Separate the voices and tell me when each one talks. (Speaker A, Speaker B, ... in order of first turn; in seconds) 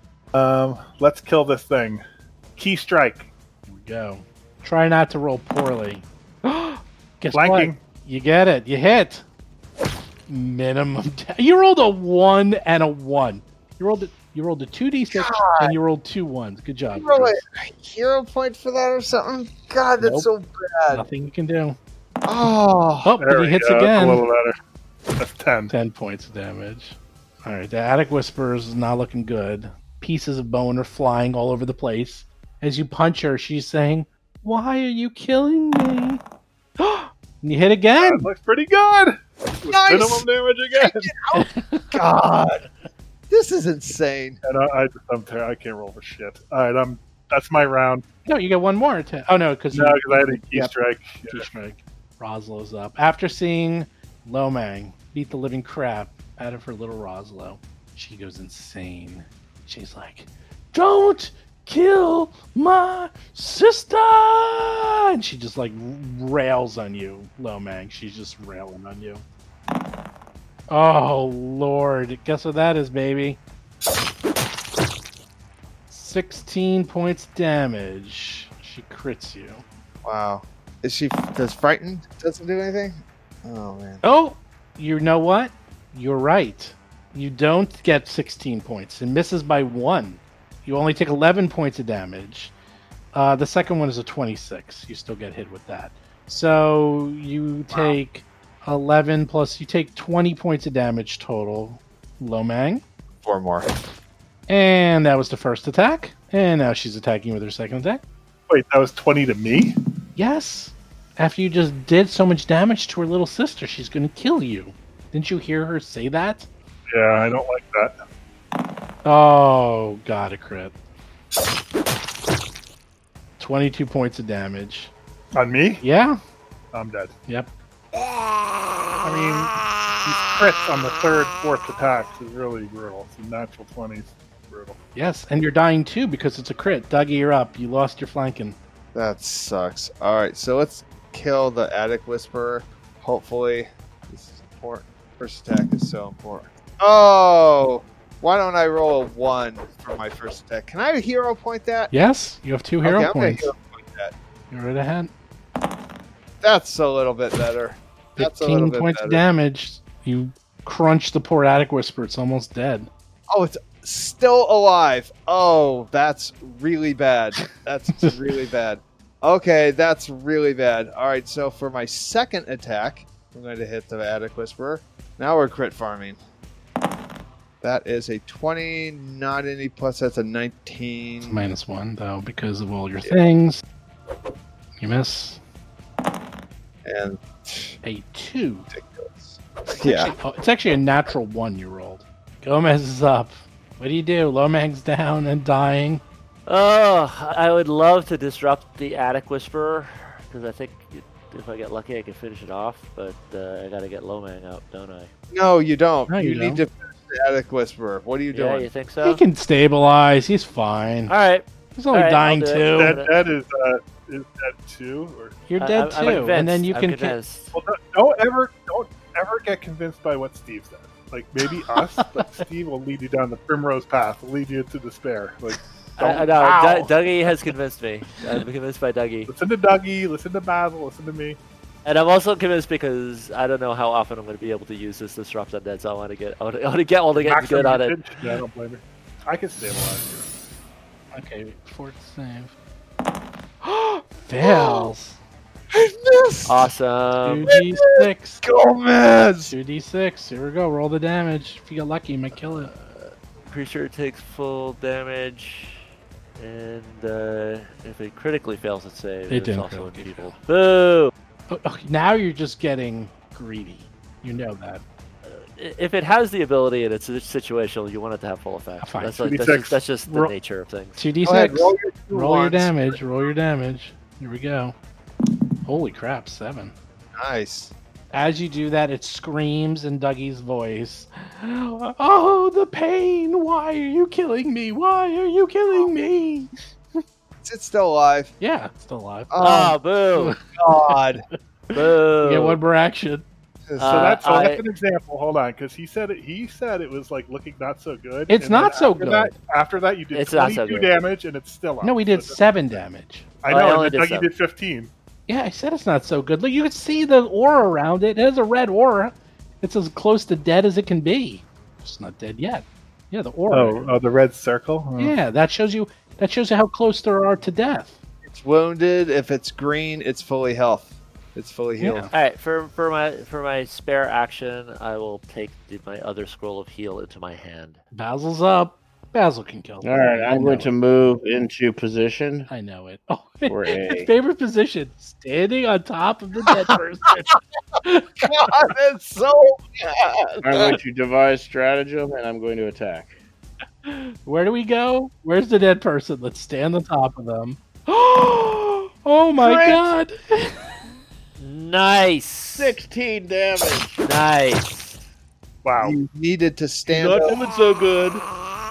Speaker A: 0.3-2.0, 2.6-3.3, 7.3-7.8, 23.2-24.5, 25.2-25.7, 38.0-41.1, 44.4-48.0, 49.7-51.5, 108.5-109.7, 116.9-118.0, 125.3-125.8, 126.7-127.1, 129.0-134.8, 212.7-215.4, 217.5-225.6, 229.3-231.4, 237.2-240.3, 269.2-269.8, 293.8-302.8, 303.4-304.9, 313.5-315.1, 355.6-356.0
Speaker B: 3.7-9.2, 10.3-17.4, 20.0-20.3, 20.9-21.8, 23.0-24.2, 25.7-36.2, 36.8-38.3, 41.3-42.0, 48.2-50.7, 51.3-69.2, 70.7-73.4, 75.9-79.6, 84.0-92.5, 93.1-102.8, 104.5-108.0, 110.2-116.5, 119.0-120.7, 123.4-124.9, 125.8-126.2, 134.9-138.6, 151.9-153.5, 154.5-155.1, 158.2-162.9, 181.2-183.6, 184.8-185.4, 187.8-188.7, 189.8-196.0, 206.1-206.6, 209.0-211.1, 211.8-212.9, 215.5-217.2, 221.5-222.4, 225.9-226.9, 241.1-242.5, 243.6-245.2, 247.2-248.4, 249.5-252.7, 259.3-260.3, 261.5-264.8, 268.8-269.3, 270.1-270.3, 271.0-274.7, 275.6-276.7, 278.1-286.5, 288.4-289.4, 290.1-291.0, 291.7-293.2, 298.3-299.3, 301.8-303.3, 305.3-313.9, 315.0-318.0, 321.8-322.1, 327.9-330.7, 332.5-338.1, 343.9-350.6
Speaker C: 15.1-15.8, 16.9-21.0, 22.2-23.1, 39.7-42.7, 43.3-44.4, 80.0-84.0, 97.7-98.0, 103.2-103.7, 138.9-151.9, 152.8-154.1, 156.4-159.2, 163.3-176.2, 177.6-181.4, 186.8-187.8, 188.7-190.1, 205.3-208.7, 244.4-244.9, 245.7-246.7, 247.5-249.5, 271.2-273.0, 277.2-277.7, 287.4-288.3, 289.3-289.8, 290.6-291.2, 293.7-294.1, 318.2-322.1, 338.2-340.8, 349.4-349.8, 355.8-357.4
Speaker D: 196.5-205.1, 208.3-209.2, 211.1-213.1, 215.6-217.6, 226.0-229.3, 231.8-238.0, 246.4-247.5, 252.4-255.8, 256.4-261.1, 265.2-271.0, 289.4-290.3, 291.7-292.6, 293.8-294.6, 300.1-300.9, 303.5-304.3, 322.1-327.8, 351.4-352.8, 354.0-355.0
Speaker E: 329.8-332.5, 333.5-334.1, 340.4-343.1, 352.6-354.0, 356.9-358.2